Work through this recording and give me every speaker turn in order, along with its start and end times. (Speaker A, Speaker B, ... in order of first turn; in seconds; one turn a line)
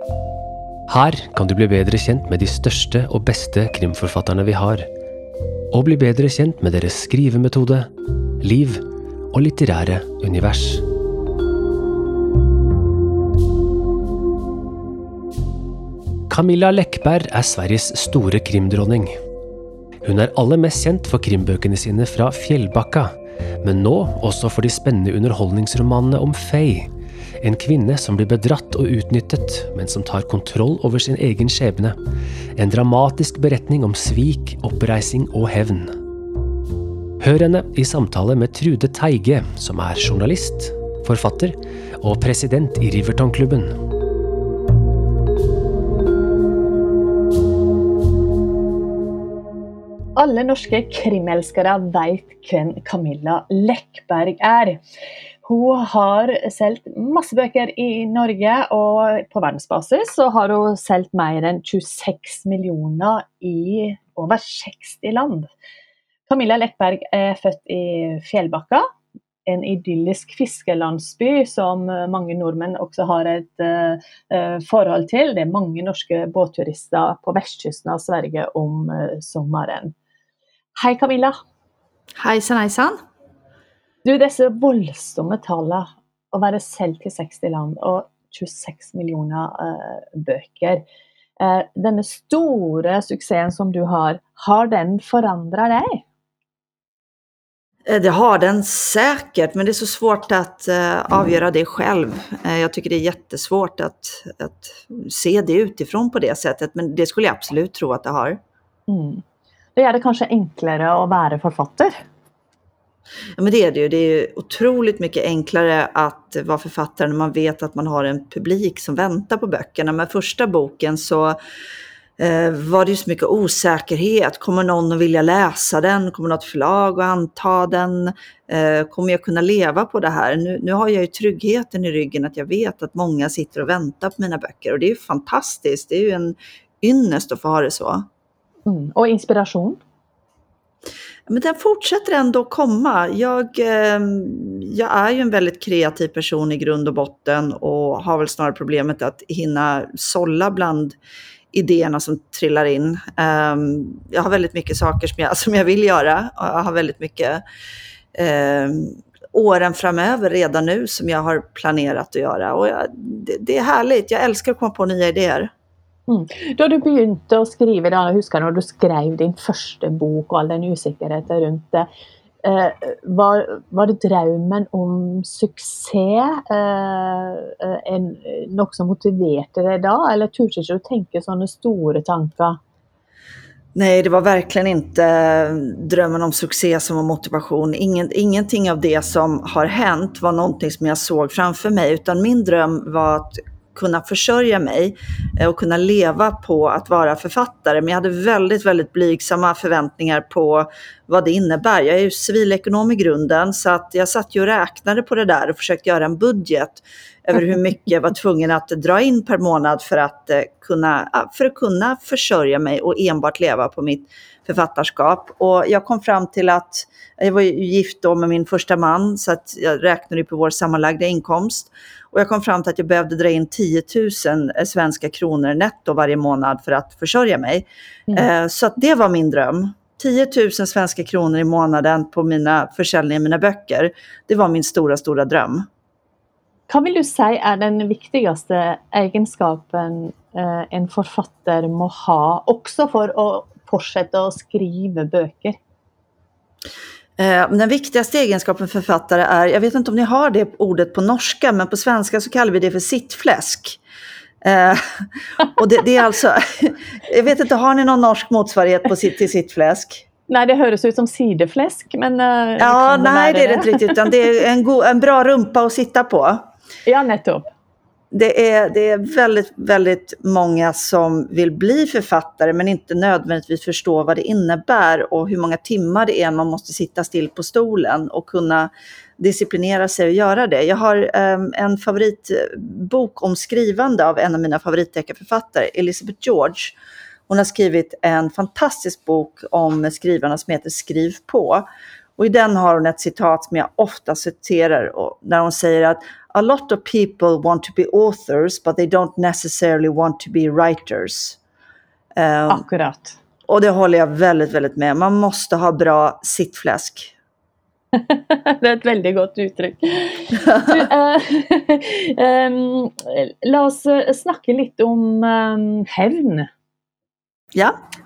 Speaker A: 0.9-4.9
Speaker A: 5.7-7.9
Speaker A: 8.4-10.8
Speaker A: 16.3-19.1
Speaker A: 20.0-32.0
Speaker A: 32.5-35.9
Speaker A: 37.2-43.7
Speaker B: 50.1-54.8
Speaker B: 55.4-65.5
Speaker B: 66.3-68.9
Speaker B: 69.5-79.9
Speaker B: 80.8-81.4
Speaker C: 82.2-83.0
Speaker B: 84.0-90.8
Speaker B: 91.4-96.0
Speaker C: 97.9-108.4
Speaker B: 108.9-109.2
Speaker B: 109.8-112.0
Speaker C: 113.4-121.3
Speaker C: 122.2-138.1
Speaker B: 138.7-139.8
Speaker C: 141.3-150.9
Speaker C: 151.5-157.4
Speaker C: 158.1-165.5
Speaker B: 166.1-171.9
Speaker B: 172.4-182.6
Speaker C: 183.7-235.7
Speaker B: 236.7-245.6
Speaker C: 247.2-253.8
Speaker C: 254.4-260.0
Speaker B: 260.3-264.0
Speaker C: 262.6-266.5
Speaker B: 266.9-267.5
Speaker C: 268.1-286.8
Speaker C: 287.3-291.6
Speaker C: 292.2-301.4
Speaker C: 302.2-302.6
Speaker B: 302.5-303.2
Speaker C: 303.5-307.1
Speaker B: 307.9-316.5